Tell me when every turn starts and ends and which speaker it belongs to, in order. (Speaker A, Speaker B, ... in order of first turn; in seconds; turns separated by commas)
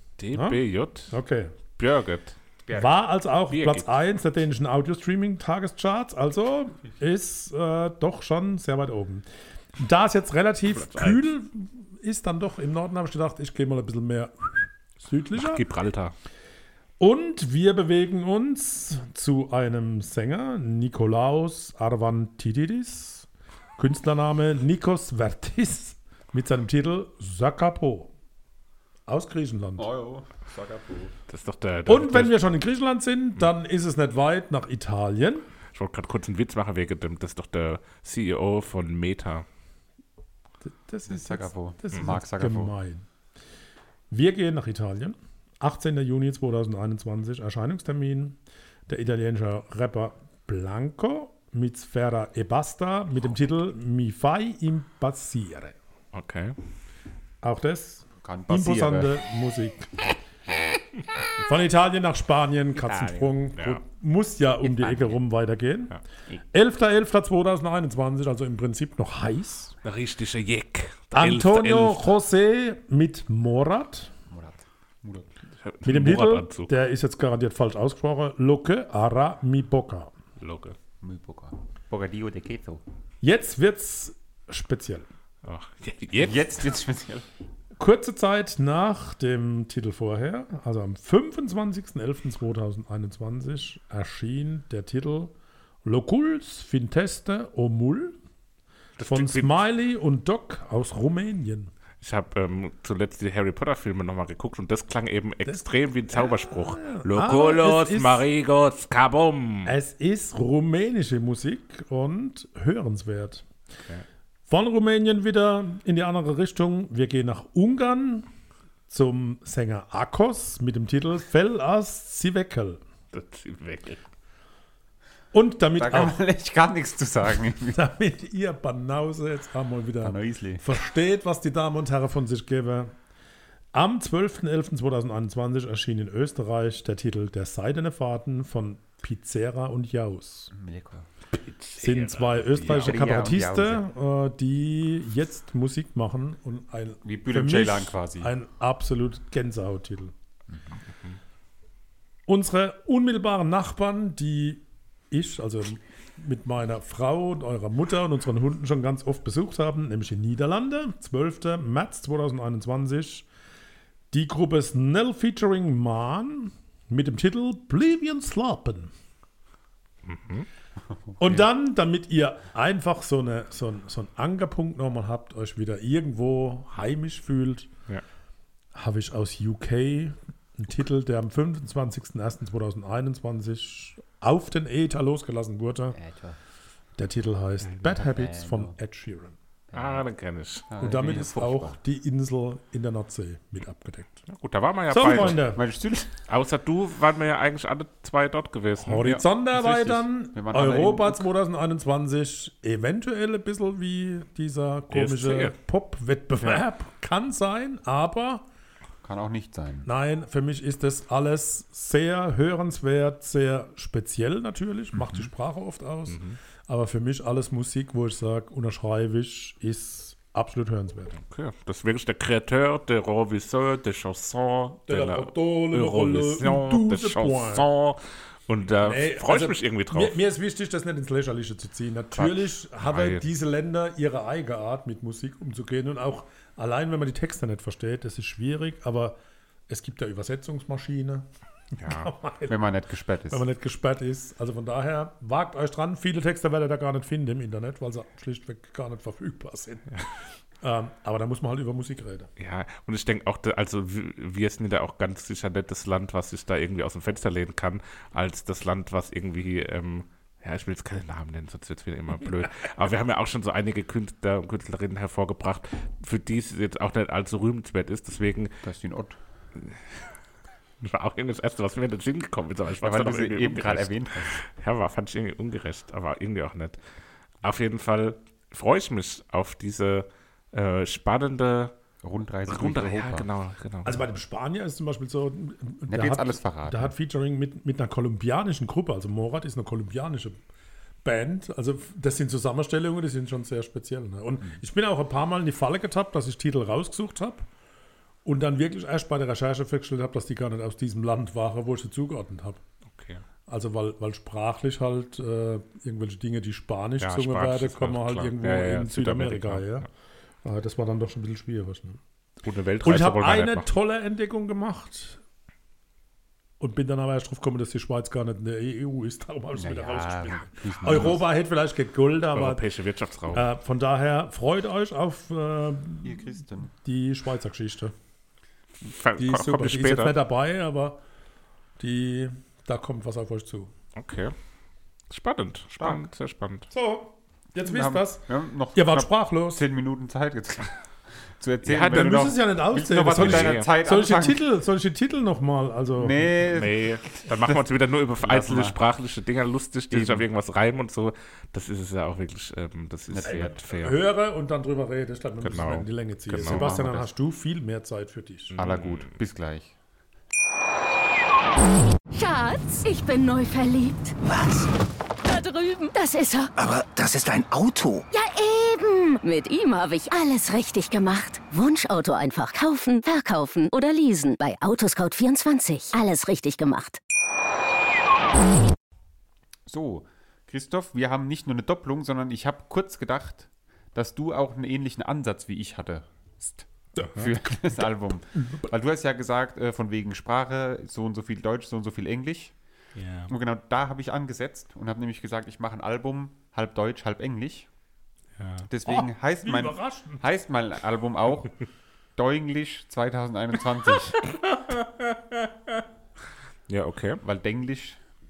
Speaker A: 0.2-1.1, Speaker B: 0.3-0.6, Speaker B: 1.1-1.6, Speaker A: 1.8-2.4, Speaker C: 2.7-2.9, Speaker B: 2.7-9.2, Speaker A: 3.5-3.9, Speaker B: 9.8-15.6, Speaker A: 10.7-11.3, Speaker A: 15.3-16.1, Speaker B: 17.0-28.1, Speaker B: 29.1-29.9, Speaker C: 29.8-31.1, Speaker A: 31.3-32.4, Speaker B: 31.9-35.5, Speaker A: 35.7-39.5, Speaker B: 40.6-43.1, Speaker C: 41.1-42.7, Speaker B: 44.1-55.8, Speaker A: 56.1-56.6, Speaker B: 57.4-60.0, Speaker C: 58.2-59.1, Speaker B: 61.4-66.0, Speaker C: 62.9-63.3, Speaker C: 64.6-65.2, Speaker B: 66.5-69.8, Speaker A: 69.8-72.1, Speaker B: 71.1-74.1, Speaker C: 74.3-75.3, Speaker A: 75.6-76.7, Speaker B: 75.8-80.1, Speaker A: 80.4-80.8, Speaker C: 81.0-82.8, Speaker B: 83.2-85.1, Speaker A: 85.4-86.7, Speaker C: 86.2-87.2, Speaker B: 87.8-95.3, Speaker B: 95.8-98.2, Speaker A: 99.0-99.6, Speaker B: 99.1-101.7, Speaker A: 102.0-109.7, Speaker B: 105.5-108.3, Speaker B: 109.7-113.5, Speaker B: 114.5-118.3, Speaker B: 118.9-122.8, Speaker A: 123.1-124.0, Speaker B: 125.3-126.2, Speaker C: 125.8-127.8, Speaker B: 127.7-132.9, Speaker C: 130.0-130.6, Speaker B: 133.7-140.5, Speaker C: 140.5-141.1, Speaker A: 141.3-143.2, Speaker B: 141.8-150.1, Speaker C: 142.7-143.9, Speaker C: 147.1-148.3, Speaker C: 150.5-150.8, Speaker B: 152.3-163.3, Speaker B: 164.1-168.9, Speaker A: 170.1-170.5, Speaker B: 171.2-177.7, Speaker B: 178.8-186.0, Speaker C: 185.9-186.4, Speaker B: 187.0-189.3, Speaker C: 187.9-188.7, Speaker C: 189.7-190.1, Speaker A: 189.7-190.7, Speaker C: 190.7-191.8, Speaker B: 190.8-194.2, Speaker A: 194.3-195.4, Speaker B: 194.9-195.6, Speaker C: 195.0-196.1, Speaker A: 196.3-199.1, Speaker B: 198.8-208.4, Speaker C: 199.0-201.2, Speaker A: 204.9-205.5, Speaker C: 209.0-209.9, Speaker B: 209.8-221.2, Speaker A: 216.1-216.4, Speaker A: 221.2-230.2, Speaker B: 224.9-227.7, Speaker B: 228.8-239.2, Speaker A: 232.8-233.2, Speaker B: 239.7-241.3, Speaker B: 241.8-242.6, Speaker A: 241.8-242.1, Speaker C: 242.5-243.4, Speaker B: 243.3-250.0, Speaker B: 250.6-252.3, Speaker A: 252.4-268.6, Speaker C: 268.6-269.2, Speaker A: 270.8-276.8, Speaker C: 272.8-274.4, Speaker A: 277.4-281.7, Speaker C: 282.0-283.3, Speaker A: 282.5-284.1, Speaker B: 283.9-290.4, Speaker C: 285.9-286.9, Speaker B: 291.0-297.5, Speaker B: 298.2-302.6, Speaker A: 302.9-303.2, Speaker B: 303.5-309.9, Speaker A: 307.0-309.8, Speaker B: 310.4-312.0, Speaker A: 312.4-313.7, Speaker B: 312.8-315.2, Speaker B: 316.6-322.6, Speaker C: 319.6-321.2, Speaker A: 322.3-323.4, Speaker B: 323.3-327.9, Speaker C: 326.0-326.7, Speaker A: 328.8-330.1, Speaker B: 329.2-331.0, Speaker B: 331.8-333.7, Speaker A: 334.0-334.3, Speaker A: 335.1-336.7, Speaker C: 335.8-336.1, Speaker B: 336.7-339.6, Speaker C: 337.6-340.8, Speaker C: 341.4-344.4, Speaker A: 341.6-342.4, Speaker B: 341.9-346.3, Speaker A: 343.1-343.7, Speaker C: 346.0-347.6, Speaker A: 346.5-354.0, Speaker C: 348.2-348.8, Speaker C: 349.9-350.2, Speaker C: 353.1-353.6, Speaker B: 353.2-358.6, Speaker A: 355.4-356.7, Speaker C: 356.3-357.1, Speaker A: 358.5-359.1, Speaker C: 358.6-359.7, Speaker D: 362.1-364.2, Speaker E: 364.2-364.7, Speaker D: 365.2-366.5, Speaker E: 366.6-368.1, Speaker D: 368.1-377.0, Speaker C: 379.7-392.5, Speaker B: 387.0-387.8, Speaker B: 388.3-388.7, Speaker A: 392.9-393.3, Speaker C: 393.3-397.7, Speaker A: 398.4-398.7, Speaker C: 398.7-401.6, Speaker B: 398.9-400.2, Speaker C: 402.2-404.2, Speaker A: 404.2-405.8, Speaker A: 406.7-407.2, Speaker C: 407.2-408.0